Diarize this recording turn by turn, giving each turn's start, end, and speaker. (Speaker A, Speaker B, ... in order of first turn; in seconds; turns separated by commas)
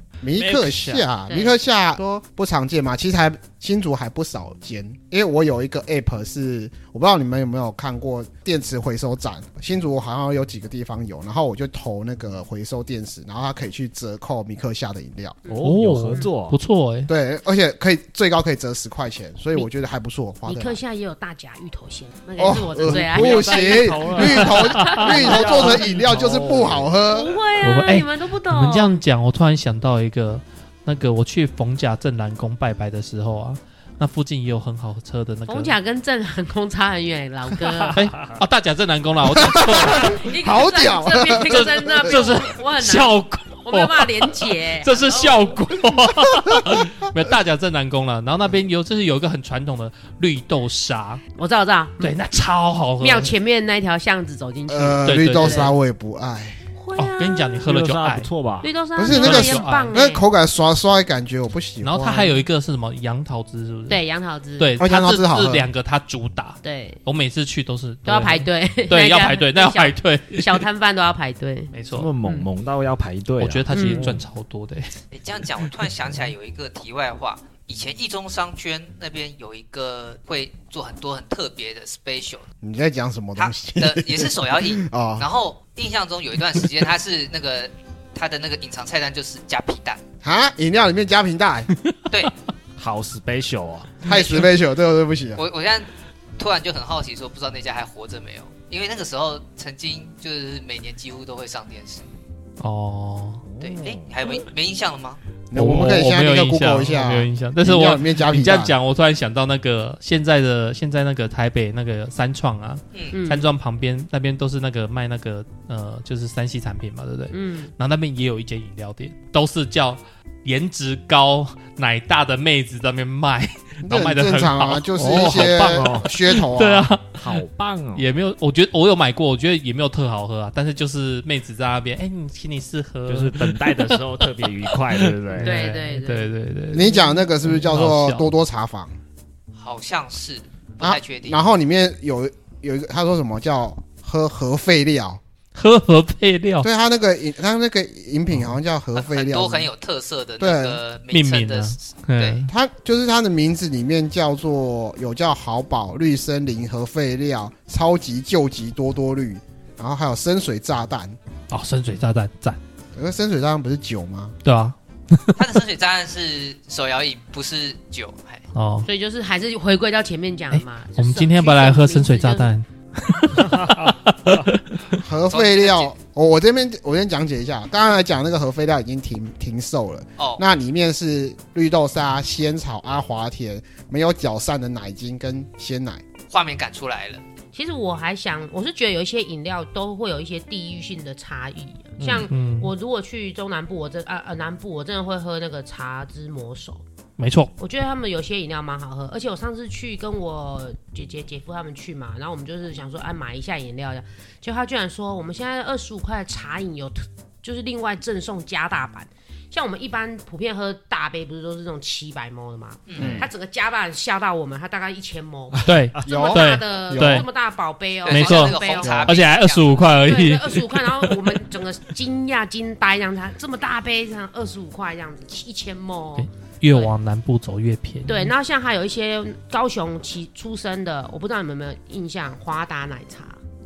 Speaker A: 0.2-15.4, Speaker B: 0.4-1.0, Speaker C: 1.3-1.6, Speaker C: 15.5-16.3, Speaker B: 15.5-16.6, Speaker D: 15.6-17.1, Speaker A: 17.1-20.8, Speaker C: 20.4-26.2, Speaker A: 22.4-27.4, Speaker B: 22.9-27.0, Speaker D: 24.4-25.1, Speaker C: 27.1-29.0, Speaker D: 27.6-35.7, Speaker C: 35.5-38.0, Speaker B: 37.6-38.4, Speaker D: 37.9-40.2, Speaker A: 39.4-42.3, Speaker C: 39.8-45.6, Speaker D: 41.5-51.2, Speaker C: 51.4-52.2, Speaker D: 52.0-53.3, Speaker C: 53.0-55.7, Speaker A: 54.7-56.6, Speaker D: 55.0-55.8, Speaker C: 56.8-57.6, Speaker D: 57.0-58.3, Speaker B: 57.6-58.7, Speaker C: 58.6-60.2, Speaker A: 59.0-62.4, Speaker D: 59.0-60.0, Speaker D: 61.8-64.0, Speaker C: 63.9-64.8, Speaker D: 64.6-70.7, Speaker A: 64.8-65.7, Speaker C: 66.6-67.0, Speaker C: 68.1-72.5, Speaker D: 71.7-72.1, Speaker B: 71.9-74.2, Speaker D: 73.4-75.0, Speaker C: 73.7-74.2, Speaker E: 75.1-82.5, Speaker A: 82.6-85.2, Speaker E: 83.4-90.0, Speaker A: 90.2-91.7, Speaker B: 92.8-94.1, Speaker A: 94.0-95.4, Speaker E: 94.1-94.5, Speaker E: 95.4-102.1, Speaker D: 102.6-103.4, Speaker B: 103.4-104.1, Speaker E: 103.6-105.2, Speaker A: 105.5-108.7, Speaker D: 105.5-125.6, Speaker C: 113.1-113.5, Speaker C: 117.3-117.7, Speaker A: 123.8-126.9, Speaker B: 125.0-126.1, Speaker D: 126.2-127.4, Speaker B: 127.1-128.1, Speaker D: 128.0-138.3, Speaker B: 133.1-135.7, Speaker C: 135.4-137.0, Speaker A: 136.7-139.0, Speaker E: 139.6-141.5, Speaker A: 140.8-145.2, Speaker D: 145.6-146.7, Speaker A: 146.6-149.7, Speaker E: 149.0-152.5, Speaker A: 150.4-150.8, Speaker D: 151.1-152.5, Speaker A: 152.5-161.2, Speaker D: 161.5-162.6, Speaker A: 163.0-164.4, Speaker D: 164.4-165.4, Speaker E: 165.4-168.4, Speaker D: 168.5-168.9, Speaker C: 168.9-172.5, Speaker D: 170.5-175.0, Speaker B: 173.4-174.4, Speaker A: 175.0-186.0, Speaker E: 175.3-175.9, Speaker E: 186.3-187.2, Speaker C: 187.5-196.8, Speaker D: 192.0-192.7, Speaker D: 197.2-197.5, Speaker C: 197.6-219.2, Speaker E: 212.9-213.2, Speaker A: 213.0-213.3, Speaker B: 215.5-216.3, Speaker D: 215.6-217.3, Speaker A: 216.1-217.3, Speaker E: 218.0-220.0, Speaker D: 218.1-221.4, Speaker A: 218.8-219.1, Speaker C: 219.9-226.9, Speaker D: 226.2-228.3, Speaker C: 228.1-233.4